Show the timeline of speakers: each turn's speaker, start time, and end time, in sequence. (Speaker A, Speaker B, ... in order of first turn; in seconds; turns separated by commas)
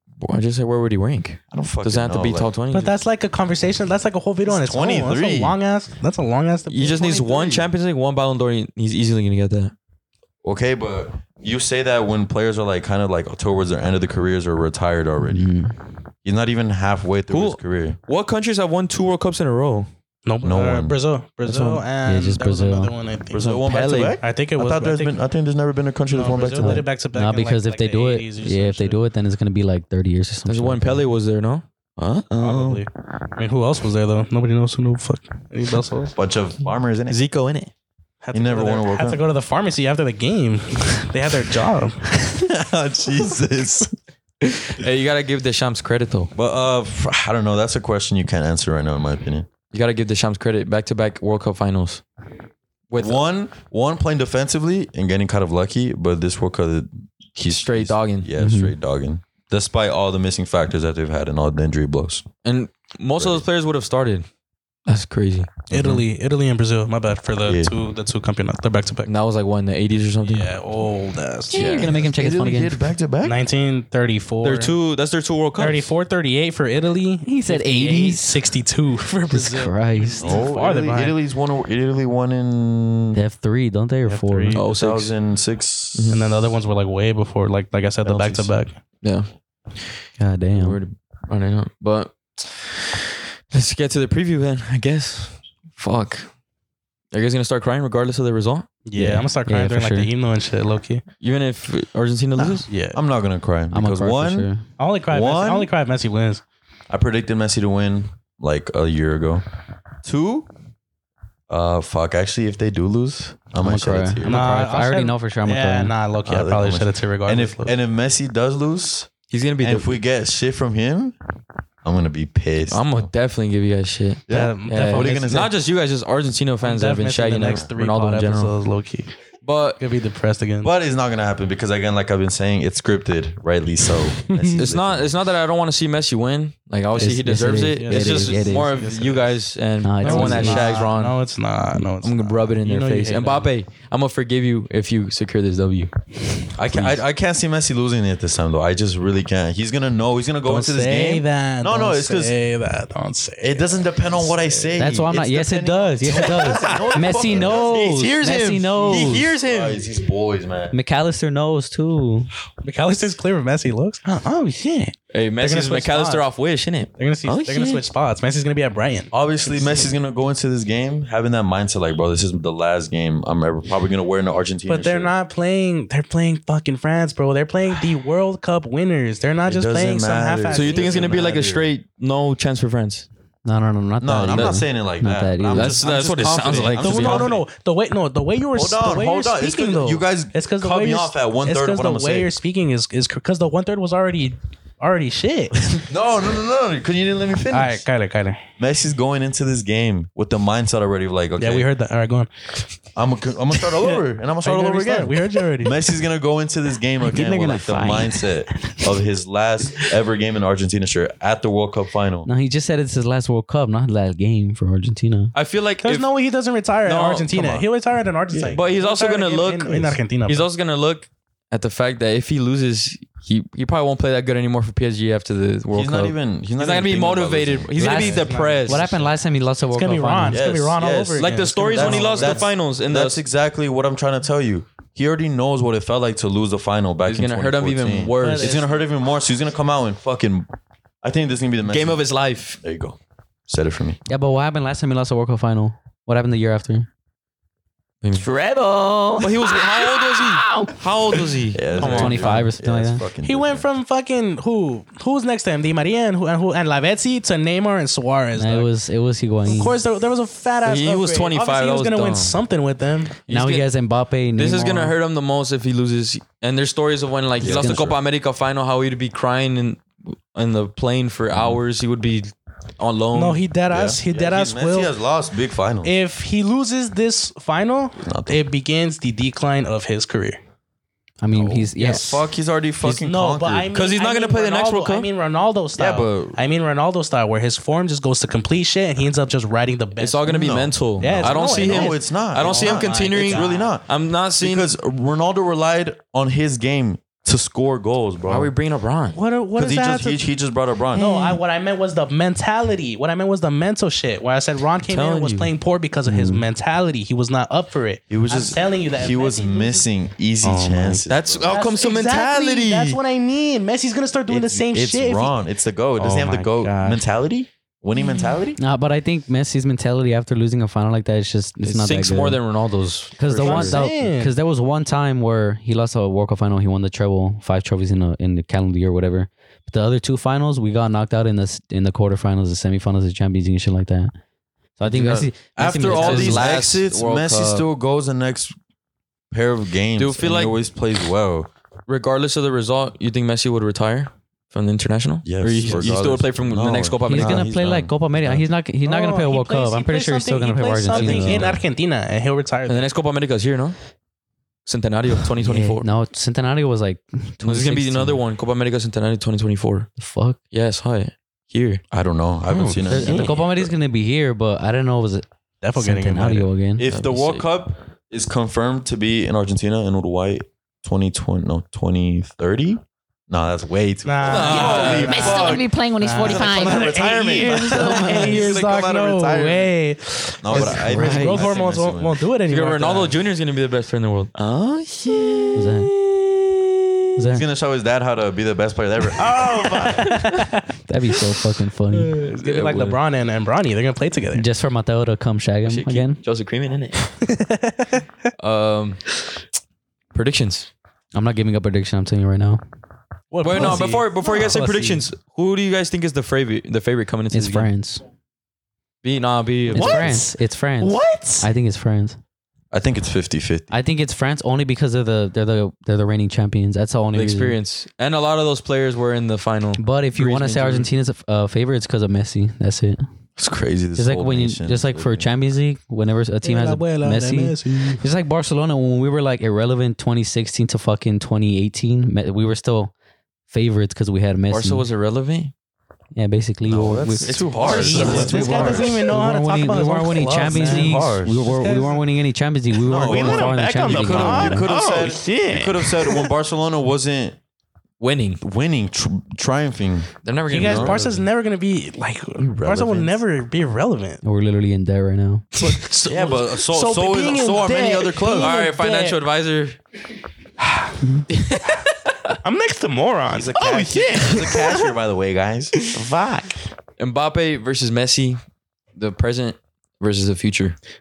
Speaker A: 0.2-2.9, Speaker B: 1.5-2.5, Speaker C: 2.7-7.7, Speaker B: 4.5-5.6, Speaker A: 6.7-9.7, Speaker B: 10.4-15.5, Speaker D: 15.2-15.8, Speaker B: 16.2-18.0, Speaker A: 17.3-19.9, Speaker C: 20.3-23.6, Speaker B: 20.4-21.0, Speaker D: 21.4-22.9, Speaker B: 23.3-26.9, Speaker A: 23.6-24.2, Speaker C: 24.2-25.2, Speaker C: 26.1-29.0, Speaker D: 26.6-31.0, Speaker A: 30.5-32.8, Speaker C: 32.4-36.1, Speaker B: 36.2-37.2, Speaker A: 37.1-37.7, Speaker C: 38.2-42.1, Speaker B: 38.3-39.2, Speaker B: 42.4-43.9, Speaker A: 44.4-46.3, Speaker B: 46.4-49.5, Speaker A: 49.7-52.0, Speaker A: 52.9-53.2, Speaker B: 53.0-62.3, Speaker A: 57.5-58.3, Speaker D: 58.4-58.7, Speaker A: 62.4-64.3, Speaker B: 63.2-63.5, Speaker A: 64.9-65.6, Speaker B: 65.7-66.0, Speaker C: 65.7-69.1, Speaker B: 67.4-67.7, Speaker A: 69.0-70.5, Speaker C: 70.2-71.9, Speaker D: 71.5-72.9, Speaker A: 71.5-72.0, Speaker B: 71.9-73.4, Speaker C: 73.2-74.8, Speaker A: 74.4-75.9, Speaker C: 75.6-81.2, Speaker D: 77.2-78.5, Speaker D: 79.3-80.2, Speaker B: 80.2-83.2, Speaker D: 83.1-84.6, Speaker C: 84.1-84.7, Speaker A: 84.5-85.1, Speaker B: 84.7-86.2, Speaker A: 86.0-86.2, Speaker C: 86.1-88.8, Speaker B: 88.0-88.5, Speaker A: 89.0-89.3, Speaker D: 90.2-90.8, Speaker A: 90.5-96.3, Speaker A: 97.1-98.7, Speaker C: 98.8-101.0, Speaker D: 99.0-100.1, Speaker A: 101.2-102.7, Speaker C: 102.7-103.0, Speaker B: 102.9-104.5, Speaker D: 103.7-104.6, Speaker C: 104.8-106.4, Speaker B: 105.1-105.7, Speaker B: 106.9-109.4, Speaker B: 110.0-110.5, Speaker B: 111.5-114.5, Speaker D: 113.6-115.9, Speaker C: 114.2-117.7, Speaker B: 116.2-121.2, Speaker A: 119.3-120.0, Speaker B: 121.8-123.1, Speaker A: 122.7-128.5, Speaker B: 124.3-125.5, Speaker C: 124.3-125.5, Speaker C: 126.6-129.1, Speaker A: 129.4-129.8, Speaker C: 129.8-130.7, Speaker B: 130.6-135.1, Speaker C: 134.3-134.7, Speaker A: 134.6-141.2, Speaker D: 137.0-138.7, Speaker C: 137.8-139.3, Speaker D: 139.8-140.7, Speaker C: 140.0-143.5, Speaker A: 142.0-145.9, Speaker B: 146.6-152.3, Speaker A: 146.6-147.0, Speaker C: 150.4-154.7, Speaker B: 153.4-158.2, Speaker D: 154.8-159.3, Speaker C: 156.7-157.4, Speaker A: 157.4-159.8, Speaker B: 158.8-160.8, Speaker D: 160.7-162.3, Speaker C: 162.6-166.3, Speaker A: 165.1-167.7, Speaker C: 167.0-169.9, Speaker E: 167.3-167.8, Speaker B: 169.1-175.1, Speaker C: 174.7-181.3, Speaker B: 179.5-181.7, Speaker A: 180.5-183.1, Speaker D: 183.4-185.8, Speaker B: 184.0-187.4, Speaker A: 185.5-187.3, Speaker C: 186.8-195.8, Speaker B: 188.5-192.4, Speaker B: 195.9-197.8, Speaker C: 197.5-198.4, Speaker B: 198.6-201.7, Speaker C: 201.4-202.3, Speaker B: 203.0-212.3, Speaker C: 203.6-205.8, Speaker E: 207.1-208.1, Speaker D: 212.2-215.3, Speaker A: 215.3-216.1, Speaker C: 215.8-220.5, Speaker A: 216.8-217.6, Speaker A: 218.5-229.0, Speaker B: 225.7-228.2, Speaker D: 227.8-230.4, Speaker C: 227.8-229.1, Speaker C: 229.7-232.5, Speaker B: 230.3-240.5, Speaker A: 231.2-233.2, Speaker A: 237.1-238.6, Speaker C: 238.2-238.7, Speaker B: 241.0-242.1, Speaker A: 241.7-242.6, Speaker B: 242.6-244.0, Speaker D: 244.1-246.9, Speaker E: 248.1-251.3, Speaker A: 249.2-252.4, Speaker B: 251.5-253.7, Speaker D: 251.8-253.1, Speaker C: 253.2-258.7, Speaker D: 258.4-259.8, Speaker C: 259.4-263.2, Speaker A: 260.6-262.4, Speaker A: 263.3-263.7, Speaker D: 263.3-264.9, Speaker A: 264.4-273.4, Speaker B: 267.4-268.0, Speaker D: 267.4-267.9, Speaker B: 271.3-271.6, Speaker C: 273.1-274.9, Speaker B: 273.7-275.9, Speaker C: 275.8-280.4, Speaker B: 278.0-278.4, Speaker D: 281.2-282.2, Speaker B: 281.3-283.7, Speaker C: 282.8-293.7, Speaker A: 283.7-285.1, Speaker B: 285.8-286.4, Speaker A: 290.0-294.7, Speaker B: 290.3-298.5, Speaker A: 298.3-299.2, Speaker C: 299.1-300.2, Speaker B: 299.6-301.4, Speaker C: 300.9-309.9, Speaker A: 304.9-305.5, Speaker D: 306.1-306.4, Speaker B: 308.1-311.5, Speaker C: 310.4-315.3, Speaker A: 311.1-313.0, Speaker B: 314.3-318.6, Speaker C: 316.0-317.0, Speaker D: 318.6-322.4, Speaker A: 321.6-323.8, Speaker D: 323.2-334.1, Speaker C: 323.4-324.3, Speaker D: 334.8-336.5, Speaker A: 334.9-337.7, Speaker B: 335.6-338.6, Speaker B: 339.3-341.5, Speaker A: 340.0-340.6, Speaker A: 341.9-347.5, Speaker B: 345.2-348.4, Speaker D: 347.1-351.6, Speaker C: 348.8-352.9, Speaker B: 350.9-351.6, Speaker A: 350.9-351.3, Speaker A: 352.7-353.8, Speaker A: 354.7-355.9, Speaker D: 355.4-358.2, Speaker A: 357.4-359.9, Speaker D: 360.0-360.4, Speaker A: 360.5-361.8, Speaker B: 361.9-363.7, Speaker C: 362.5-363.2, Speaker D: 362.9-365.3, Speaker C: 365.6-366.5, Speaker D: 365.8-366.9, Speaker B: 366.8-379.7, Speaker A: 366.9-367.5, Speaker C: 374.1-383.2, Speaker A: 374.2-375.4, Speaker E: 374.7-377.1, Speaker D: 377.7-378.4, Speaker B: 380.4-382.2, Speaker D: 380.5-381.5, Speaker A: 380.5-381.5, Speaker A: 382.4-385.2, Speaker E: 384.5-386.3, Speaker D: 385.6-385.9, Speaker D: 387.2-387.4, Speaker B: 387.3-389.8, Speaker C: 389.2-390.6, Speaker D: 390.9-392.1, Speaker C: 391.9-394.4, Speaker A: 392.4-393.0, Speaker D: 394.4-396.2, Speaker A: 395.6-397.1, Speaker C: 397.2-398.0, Speaker A: 398.4-399.2, Speaker A: 400.1-400.7, Speaker D: 401.1-402.6, Speaker C: 403.3-405.0, Speaker A: 403.4-407.7, Speaker D: 407.3-408.0, Speaker A: 409.0-410.2, Speaker D: 409.7-412.2, Speaker E: 409.8-410.2, Speaker E: 410.8-411.5, Speaker B: 412.7-413.7, Speaker D: 413.7-417.6, Speaker A: 417.1-420.9, Speaker D: 419.8-423.0, Speaker B: 423.4-425.3, Speaker D: 424.0-432.9, Speaker C: 426.4-428.0, Speaker D: 433.5-434.9, Speaker A: 434.5-435.5, Speaker D: 436.2-444.7, Speaker B: 436.7-439.1, Speaker A: 437.5-438.9, Speaker C: 437.6-442.0, Speaker B: 440.3-441.5, Speaker B: 442.8-447.4, Speaker C: 442.9-445.7, Speaker E: 444.6-446.1, Speaker A: 448.0-448.4, Speaker B: 448.4-451.0, Speaker A: 450.2-451.0, Speaker C: 450.5-454.2, Speaker B: 452.4-453.2, Speaker D: 454.2-455.5, Speaker C: 455.6-459.2, Speaker B: 456.1-458.5, Speaker A: 458.4-459.8, Speaker A: 461.3-461.8, Speaker C: 462.4-464.6, Speaker B: 463.3-465.9, Speaker E: 465.9-466.6, Speaker A: 467.0-468.4, Speaker A: 469.0-470.8